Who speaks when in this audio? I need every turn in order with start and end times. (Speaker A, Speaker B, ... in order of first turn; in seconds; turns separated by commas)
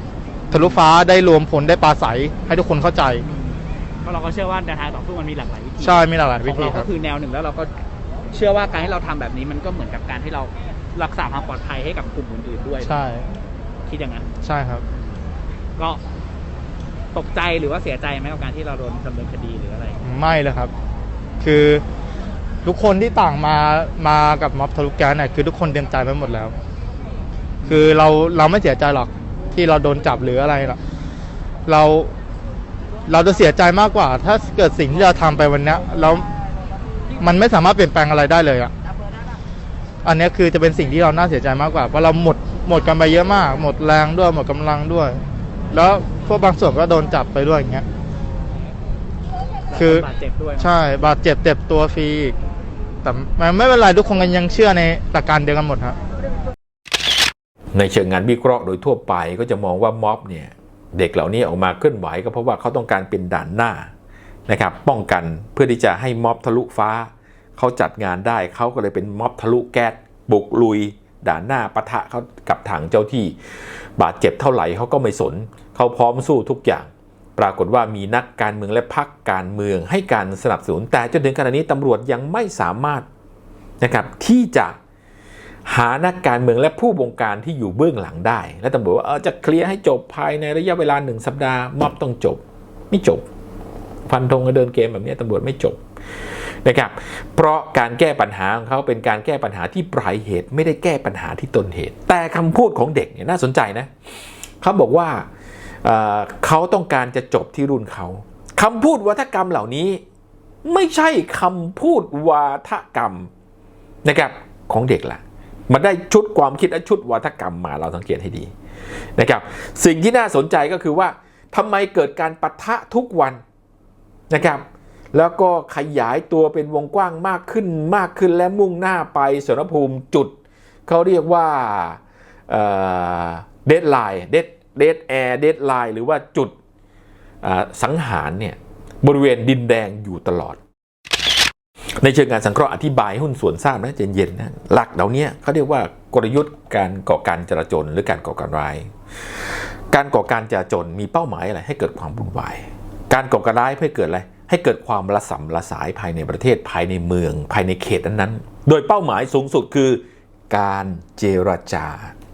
Speaker A: 0.5-0.8, Speaker B: 0.5-3.2, Speaker A: 3.2-7.7, Speaker B: 5.8-6.9, Speaker A: 8.3-13.0, Speaker B: 12.8-13.2, Speaker A: 13.9-14.3, Speaker B: 14.4-14.8, Speaker A: 14.9-15.2, Speaker A: 17.1-20.0, Speaker B: 20.0-20.7, Speaker B: 21.4-21.8, Speaker B: 22.6-26.6, Speaker B: 27.6-30.8, Speaker B: 31.7-32.1, Speaker B: 33.1-36.3, Speaker B: 37.2-38.7, Speaker B: 40.0-45.2, Speaker B: 45.7-47.9, Speaker A: 49.7-50.7, Speaker B: 49.7-50.1, Speaker B: 50.6-52.4, Speaker B: 53.0-56.0, Speaker C: 57.7-63.9, Speaker C: 64.5-73.3, Speaker C: 74.0-83.1, Speaker C: 83.8-84.8, Speaker C: 85.7-93.3, Speaker C: 94.1-95.8, Speaker C: 96.6-103.9, Speaker C: 104.6-105.3, Speaker C: 105.8-110.0, Speaker C: 110.6-113.3, Speaker C: 114.0-118.5, Speaker C: 119.2-123.4, Speaker C: 124.3-130.4, Speaker C: 130.9-136.6, Speaker C: 137.4-140.6, Speaker C: 142.0-148.9, Speaker C: 149.9-162.2